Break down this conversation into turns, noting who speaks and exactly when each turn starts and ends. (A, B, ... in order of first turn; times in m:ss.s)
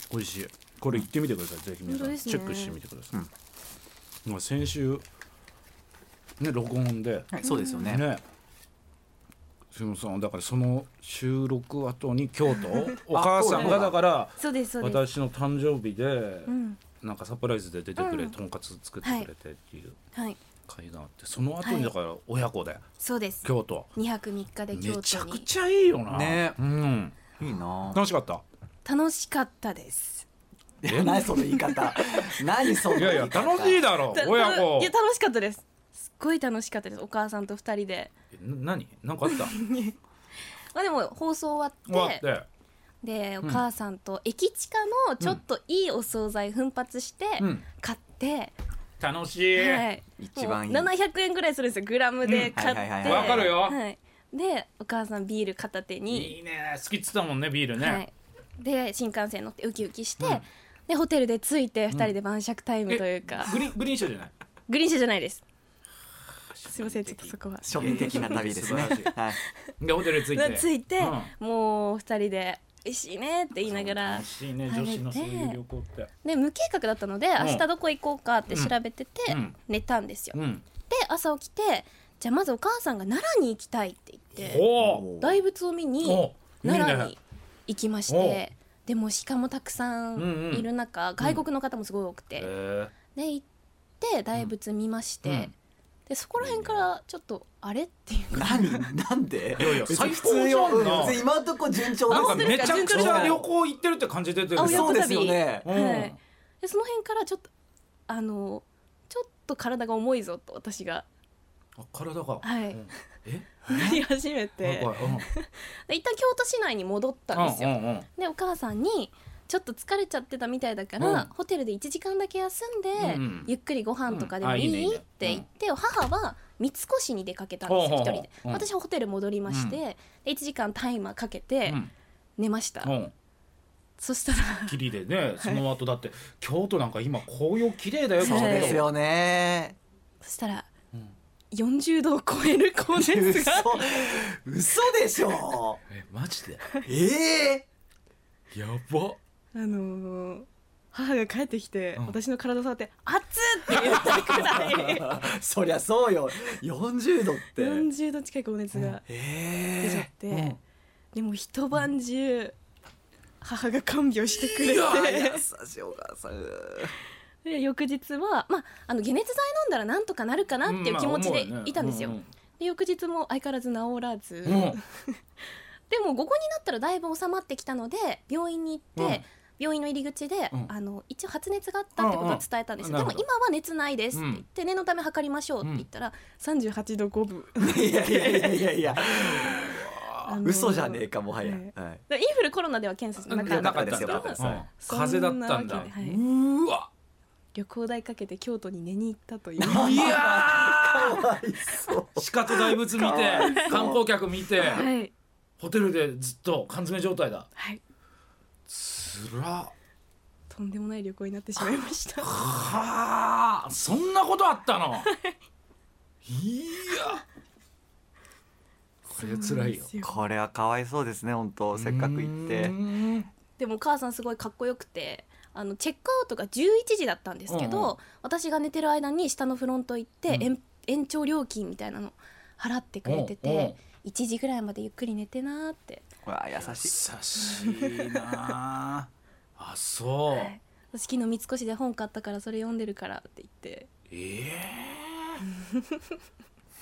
0:00.1-0:03.2 A
0:01.9-0:02.8 B
0:04.3-0:05.0 A
0:06.4-0:07.3 A
0:07.3-0:08.1 C
0:07.4-0:07.9 B
0:07.8-0:08.2 A
0:09.7-0:20.0 A
0:13.1-0:14.0 C
0:13.5-0:13.8 B
0:14.4-0:15.0 B
0:16.5-0:16.8 B
0:18.0-0:18.4 B
0:19.0-0:19.3 B
0:20.1-0:20.4 B
0:20.7-0:22.8 A
0:21.6-0:21.9 B
0:23.0-0:25.5 B
0:23.4-0:23.9 A
0:24.7-0:27.2 A
0:26.1-0:26.6 C
0:27.4-0:28.0 C
0:27.9-0:28.4 A
0:28.8-0:30.3 B
0:30.8-0:33.9 C
0:30.8-0:31.3 A
0:31.2-0:32.1 B
0:32.7-0:33.3 B
0:33.0-0:34.9 A
0:34.1-0:38.1 B
0:38.3-0:39.6 A
0:39.3-0:40.0 B
0:40.7-0:42.2 B
0:41.9-0:42.5 A
0:43.0-0:48.5 B
0:47.4-0:47.7 A
0:49.0-0:49.8 A
0:49.5-0:56.4 B
0:50.2-0:50.9 C
0:52.2-0:53.8 A
0:52.6-0:53.6 C
0:56.1-0:58.0 A
0:57.8-1:03.7 B
1:00.2-1:00.5 A
1:02.9-1:04.3 A
1:04.7-1:05.4 B
1:06.5-1:09.2 A
1:06.7-1:09.4 B
1:07.6-1:09.4 C
1:09.8-1:11.3 A
1:10.0-1:15.6 B
1:13.6-1:16.1 A
1:16.2-1:20.4 B
1:17.4-1:17.6 A
1:18.5-1:18.8 A
1:19.3-1:19.6 A
1:20.3-1:20.6 A
1:20.9-1:24.7 B
1:24.4-1:25.1 A
1:24.8-1:25.4 C
1:25.2-1:32.5 B
1:26.0-1:27.2 A
1:28.1-1:28.4 A
1:30.2-1:30.7 A
1:32.4-1:32.9 A
1:33.1-1:33.4 B
1:34.0-1:35.5 B
1:35.2-1:35.5 A
1:36.1-1:38.9 B
1:36.4-1:36.9 A
1:38.3-1:43.5 C
1:39.6-1:41.2 A
1:41.8-1:43.4 B
1:42.1-1:45.0 A
1:44.6-1:45.7 C
1:44.6-1:47.5 B
1:45.6-1:46.2 A
1:48.1-1:51.1 B
1:51.8-1:54.0 A
1:52.4-1:52.9 B
1:53.6-2:11.8 B
1:54.6-1:55.3 A
1:57.3-1:58.1 A
2:01.0-2:01.3 A
2:03.0-2:03.5 A
2:04.1-2:05.5 A
2:07.7-2:08.7 A
2:09.5-2:09.8 A
2:12.4-2:12.9 B
2:12.8-2:13.1 A
2:14.0-2:14.8 B
2:14.7-2:18.8 A
2:18.2-2:18.9 B
2:18.2-2:19.8 C
2:20.2-2:20.7 B
2:21.5-2:23.8 B
2:23.0-2:25.8 C
2:25.9-2:26.6 A
2:26.8-2:27.7 C
2:28.5-2:29.2 A
2:29.5-2:35.2 B
2:34.0-2:37.9 C
2:37.6-2:39.0 B
2:39.1-2:40.0 C
2:39.2-2:40.6 A
2:39.8-2:40.6 B
2:41.1-2:42.6 B
2:43.4-2:45.4 B
2:44.4-2:45.1 A
2:44.8-2:46.9 C
2:47.4-2:55.0 B
2:50.6-2:52.3 A
2:54.4-2:54.8 A
2:55.9-3:08.7 B
2:59.0-2:59.2 A
3:02.0-3:03.3 A
3:04.1-3:04.4 A
3:07.6-3:09.7 C
3:09.0-3:10.4 A
3:10.2-3:16.2 B
3:10.4-3:12.0 C
3:13.3-3:16.9 A
3:13.3-3:14.6 C
3:17.6-3:20.3 B
3:19.6-3:21.2 A
3:19.6-3:24.0 C
3:22.2-3:24.9 A
3:23.4-3:23.8 B
3:24.6-3:25.1 B
3:25.6-3:27.5 A
3:28.7-3:29.7 A
3:30.5-3:32.3 B
3:32.2-3:35.1 A
3:35.0-3:35.4 B
3:36.3-3:37.2 A
3:39.1-3:39.9 A
3:39.2-3:40.2 B
3:40.0-3:42.8 C
3:41.7-3:43.3 A
3:43.6-3:56.0 B
3:47.5-3:48.0 A
3:53.0-3:53.8 A
3:56.2-3:57.0 C
3:56.6-4:00.5 A
3:57.4-3:58.3 B
4:00.3-4:03.9 B
4:04.1-4:05.4 A
4:05.6-4:06.0 B